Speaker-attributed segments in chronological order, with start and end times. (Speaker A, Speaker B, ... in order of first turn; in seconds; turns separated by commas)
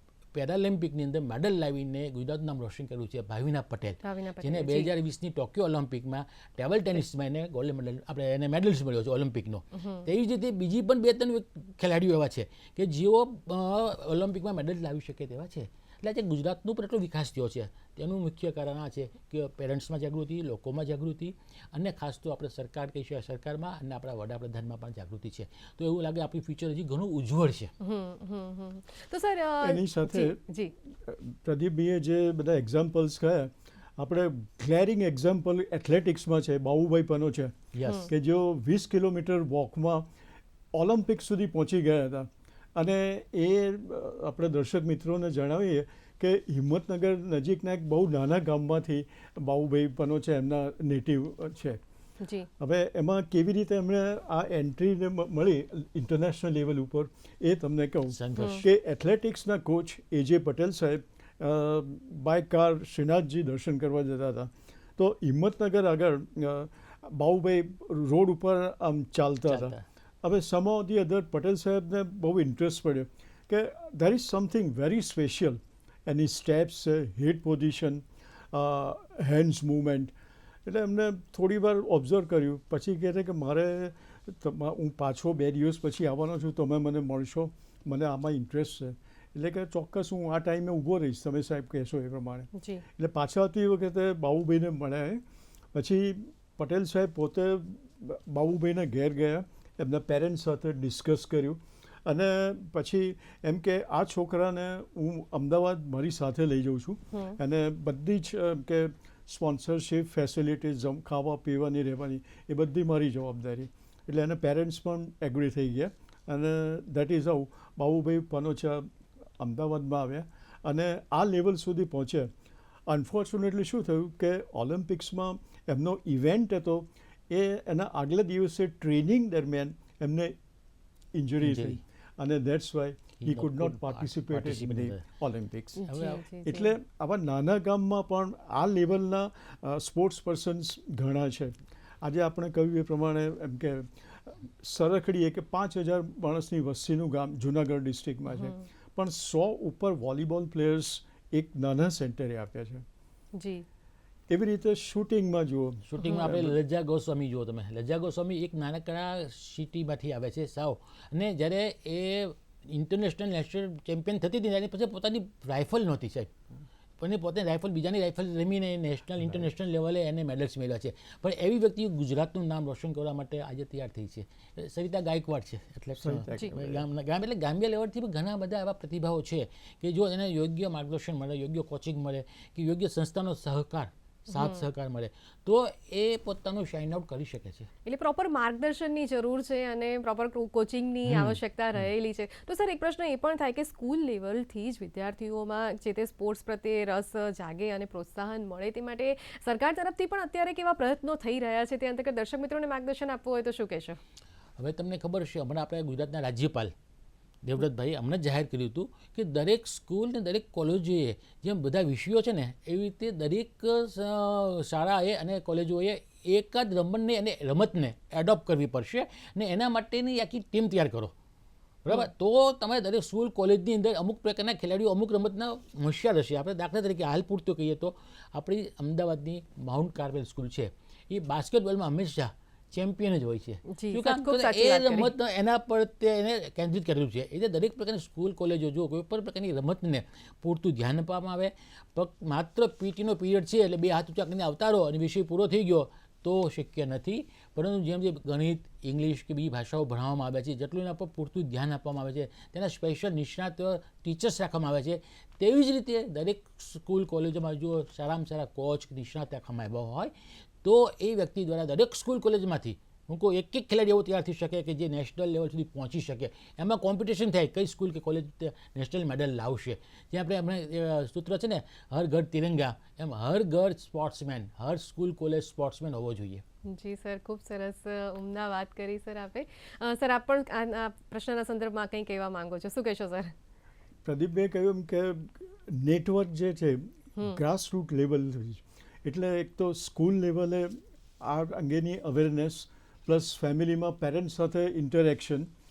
Speaker A: 0.3-27.7, Speaker B: 4.0-4.9, Speaker B: 9.7-10.1, Speaker B: 27.8-30.7, Speaker C: 29.6-40.1, Speaker A: 37.7-38.1, Speaker B: 37.8-38.1, Speaker C: 40.7-51.8, Speaker B: 52.2-52.5, Speaker C: 52.6-80.1, Speaker A: 58.1-58.6, Speaker B: 58.4-58.6, Speaker A: 69.5-69.8, Speaker C: 80.7-122.3, Speaker B: 92.5-92.8, Speaker B: 107.1-107.4, Speaker C: 122.9-130.4, Speaker C: 131.1-135.9, Speaker A: 131.4-131.8, Speaker A: 133.2-135.0, Speaker B: 135.8-136.7, Speaker A: 135.9-136.2, Speaker C: 136.4-152.8, Speaker B: 148.3-148.7, Speaker B: 153.3-153.6, Speaker C: 154.3-156.6, Speaker A: 155.9-166.3, Speaker A: 167.0-187.7, Speaker C: 176.0-176.8, Speaker B: 184.3-184.6, Speaker B: 187.8-204.0, Speaker A: 191.1-191.4, Speaker A: 204.6-206.7, Speaker A: 207.4-221.1, Speaker A: 221.8-260.1, Speaker B: 233.7-235.1, Speaker A: 260.6-276.4, Speaker B: 276.6-283.3, Speaker C: 284.0-295.5